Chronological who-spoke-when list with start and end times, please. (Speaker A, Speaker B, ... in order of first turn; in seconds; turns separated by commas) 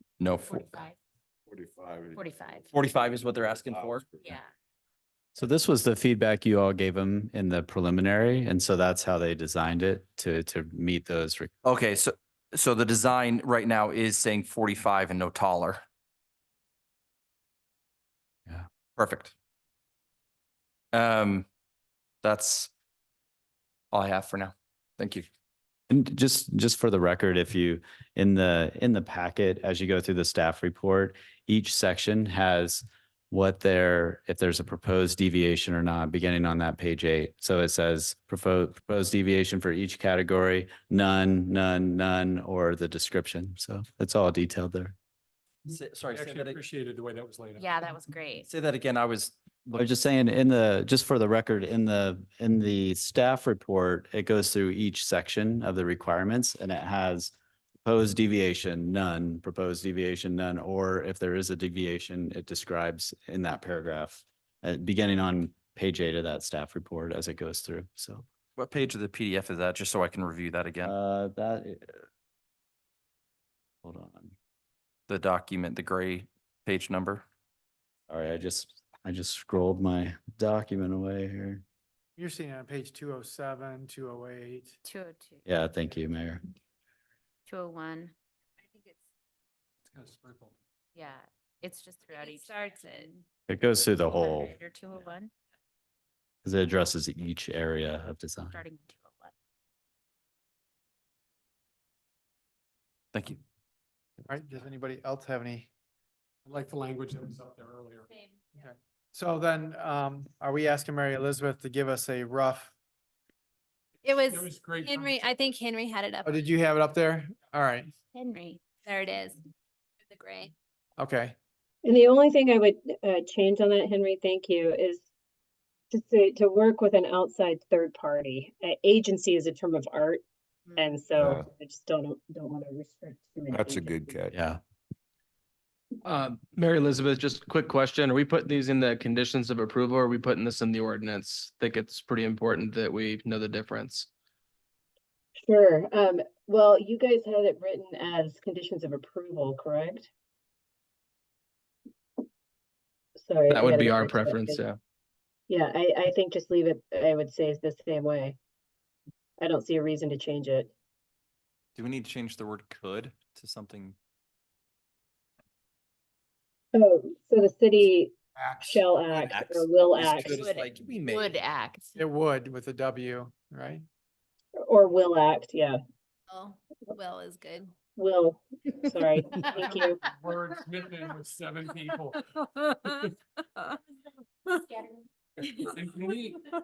Speaker A: 0.2-0.8, Speaker B: 0.4-1.0, Speaker C: 1.5-4.4, Speaker B: 2.1-2.7, Speaker A: 2.7-4.0, Speaker B: 4.2-4.5, Speaker D: 5.3-11.5, Speaker A: 11.6-15.8, Speaker A: 19.0-19.3, Speaker A: 20.9-21.4, Speaker A: 22.2-22.7, Speaker A: 23.9-25.2, Speaker D: 25.9-44.9, Speaker A: 45.7-46.6, Speaker E: 46.1-47.9, Speaker B: 47.6-48.5, Speaker A: 48.5-49.9, Speaker D: 49.8-57.3, Speaker D: 57.8-68.2, Speaker A: 68.5-70.9, Speaker D: 70.8-72.0, Speaker D: 73.8-74.3, Speaker A: 75.1-77.2, Speaker D: 78.1-81.6, Speaker F: 82.2-84.8, Speaker B: 84.8-85.4, Speaker D: 85.5-86.4, Speaker B: 87.5-88.1, Speaker E: 89.8-90.5, Speaker B: 90.9-93.2, Speaker G: 92.2-93.0, Speaker D: 93.5-94.5, Speaker B: 94.1-95.3, Speaker D: 96.4-98.6, Speaker B: 98.5-99.3, Speaker A: 103.1-103.4, Speaker F: 104.2-105.7, Speaker E: 106.4-108.1, Speaker F: 108.6-112.7, Speaker E: 114.0-115.3, Speaker G: 114.0-116.3, Speaker F: 116.2-117.9, Speaker B: 118.1-118.6, Speaker G: 118.8-119.4, Speaker G: 120.1-120.5, Speaker F: 121.0-121.3, Speaker H: 121.8-125.0, Speaker H: 125.9-130.2, Speaker H: 130.7-134.1, Speaker C: 131.2-131.5, Speaker C: 133.5-134.3, Speaker D: 134.3-134.6, Speaker I: 136.0-144.1, Speaker H: 145.4-150.1, Speaker H: 153.2-154.6, Speaker I: 153.5-154.8, Speaker H: 155.5-158.4, Speaker H: 159.4-160.7, Speaker A: 161.7-163.9, Speaker H: 166.7-170.4, Speaker F: 168.6-168.8, Speaker A: 169.2-171.4, Speaker B: 170.3-172.0, Speaker F: 172.0-173.8, Speaker H: 174.6-175.8, Speaker G: 176.3-177.7, Speaker H: 177.9-180.0, Speaker E: 180.1-182.2, Speaker E: 185.7-186.4